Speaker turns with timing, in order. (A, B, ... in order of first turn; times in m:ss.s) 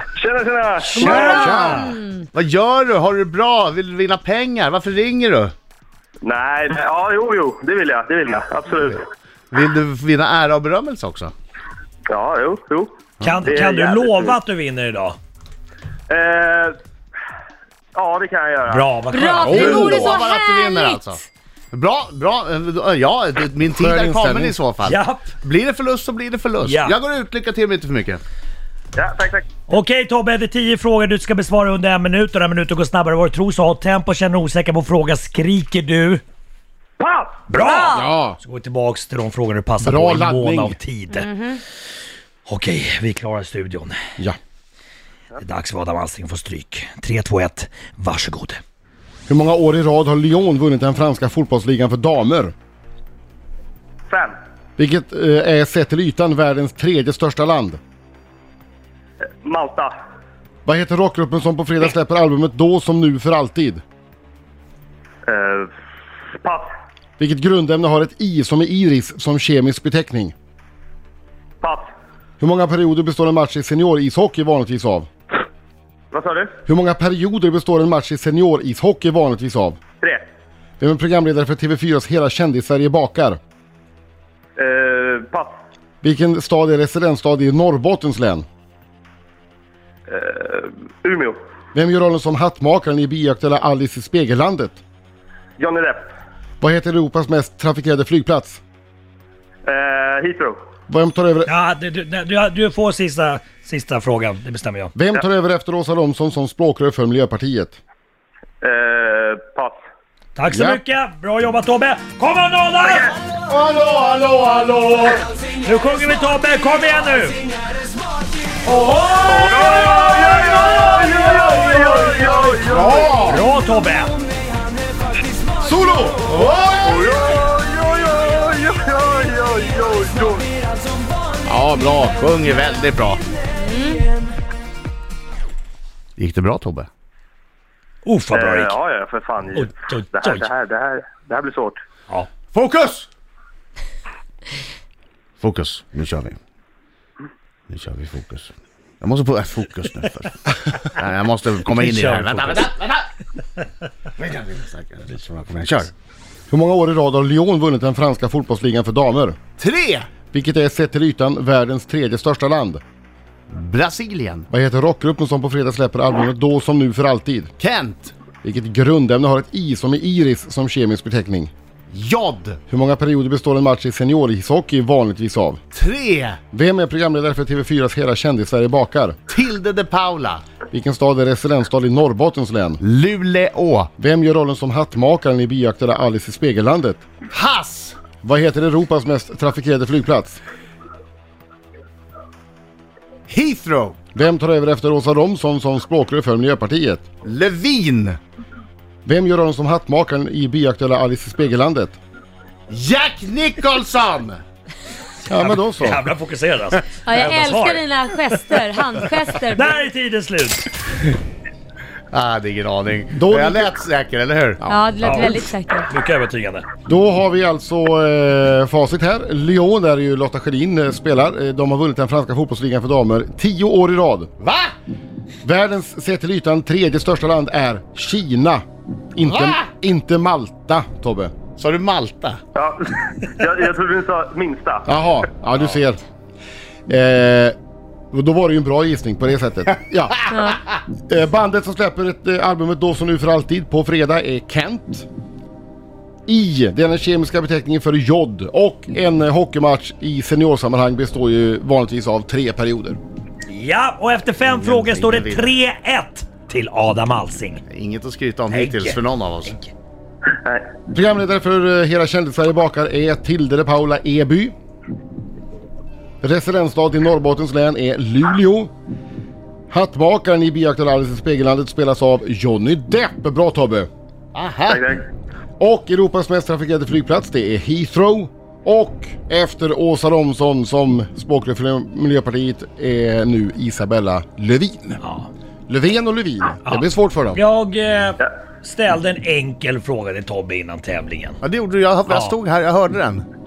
0:00.2-0:01.7 A
0:00.9-0:01.8 B
0:01.1-0:02.2 C
0:01.2-0:02.0 D
0:02.3-0:05.5 B
0:06.2-0:09.1 A
0:09.5-0:11.3 B
0:12.1-0:12.9 A
0:13.2-0:15.2 E
0:13.4-0:14.3 A
0:16.1-0:16.8 A
0:17.9-0:18.9 A
0:18.7-0:20.2 E
0:19.1-0:21.0 C
0:19.4-0:20.1 D
0:19.5-0:28.2 B
0:23.7-0:24.6 D
0:24.8-0:25.3 E
0:26.6-0:26.9 E
0:29.0-0:29.5 A
0:29.7-0:36.2 E
0:37.0-0:37.6 A
0:37.5-0:41.3 E
0:37.6-0:38.1 C
0:37.9-0:38.4 D
0:39.8-0:40.8 D
0:41.1-0:41.6 C
0:42.4-0:43.9 E
0:45.4-0:48.6 E
0:49.3-0:52.5 D
0:54.1-0:54.3 A
0:54.8-0:57.8 D
0:59.4-0:59.9 A
1:00.6-1:03.8 D
1:05.2-1:05.7 A
1:06.4-1:06.7 A
1:07.2-1:10.3 D
1:11.6-1:11.9 A
1:12.4-1:15.1 D
1:16.1-1:16.5 A
1:16.7-1:19.8 D
1:20.8-1:23.4 D
1:24.6-1:25.5 A
1:26.0-1:28.4 D
1:30.1-1:31.4 A
1:31.7-1:34.8 D
1:35.6-1:36.0 A
1:36.6-1:38.6 D
1:39.6-1:40.6 A
1:40.9-1:41.5 D
1:41.4-1:44.9 E
1:44.9-1:47.8 D
1:48.6-1:49.8 A
1:50.4-1:53.1 E
1:50.5-1:50.8 D
1:52.8-1:53.1 A
1:53.5-1:55.2 D
1:55.6-1:57.4 E
1:59.2-2:03.2 A
2:00.2-2:00.6 D
2:02.7-2:03.4 D
2:03.2-2:04.1 E
2:05.6-2:06.3 D
2:06.3-2:06.7 B
2:06.8-2:10.5 A
2:11.5-2:13.2 B
2:13.6-2:14.1 C
2:16.2-2:16.9 B
2:18.0-2:18.8 E
2:18.3-2:21.8 A
2:19.5-2:20.5 E
2:22.5-2:23.1 B
2:25.4-2:26.4 B
2:27.7-2:33.1 B
2:31.7-2:32.7 E
2:34.2-2:35.9 B
2:36.5-2:39.4 D
2:39.6-2:40.1 B
2:40.3-2:42.8 D
2:43.5-2:44.5 B
2:44.5-2:47.5 D
2:47.6-2:48.1 B
2:48.4-2:51.5 D
2:51.9-2:52.6 B
2:52.7-2:55.6 D
2:55.7-2:56.4 B
2:56.5-2:59.2 D
2:59.3-3:00.4 B
3:00.7-3:02.8 D
3:02.8-3:03.9 B
3:04.0-3:07.0 D
3:07.3-3:08.0 B
3:08.2-3:10.4 D
3:13.3-3:14.0 B
3:14.1-3:17.0 D
3:17.2-3:18.2 B
3:19.0-3:22.0 D
3:22.7-3:24.4 B
3:25.3-3:26.0 D
3:25.3-3:27.8 E
3:27.0-3:29.7 C
3:29.5-3:30.7 E
3:32.1-3:34.6 B
3:33.1-3:33.7 D
3:34.6-3:35.2 D
3:34.6-3:35.9 C
3:35.0-3:36.6 E
3:36.8-3:44.3 D
3:44.4-3:44.8 B
3:45.4-3:48.6 D
3:49.1-3:51.3 D
3:49.2-3:49.6 B
3:51.6-3:52.4 B
3:52.5-3:54.9 A
3:54.8-3:56.0 D
3:56.9-3:57.6 D
3:58.1-4:00.3 D
4:00.3-4:00.6 C
4:01.0-4:05.1 D
4:06.3-4:13.0 D
4:13.5-4:17.6 E
4:14.5-4:15.5 B
4:17.7-4:19.6 B
4:18.5-4:19.7 E
4:20.3-4:20.7 A
4:20.9-4:24.5 D
4:26.2-4:28.7 D
4:29.7-4:33.9 D
4:34.3-4:34.9 B
4:34.6-4:35.0 A
4:35.6-4:45.0 D
4:45.0-4:45.3 E
4:45.7-4:47.4 D
4:46.6-4:51.4 E
4:51.4-4:53.2 B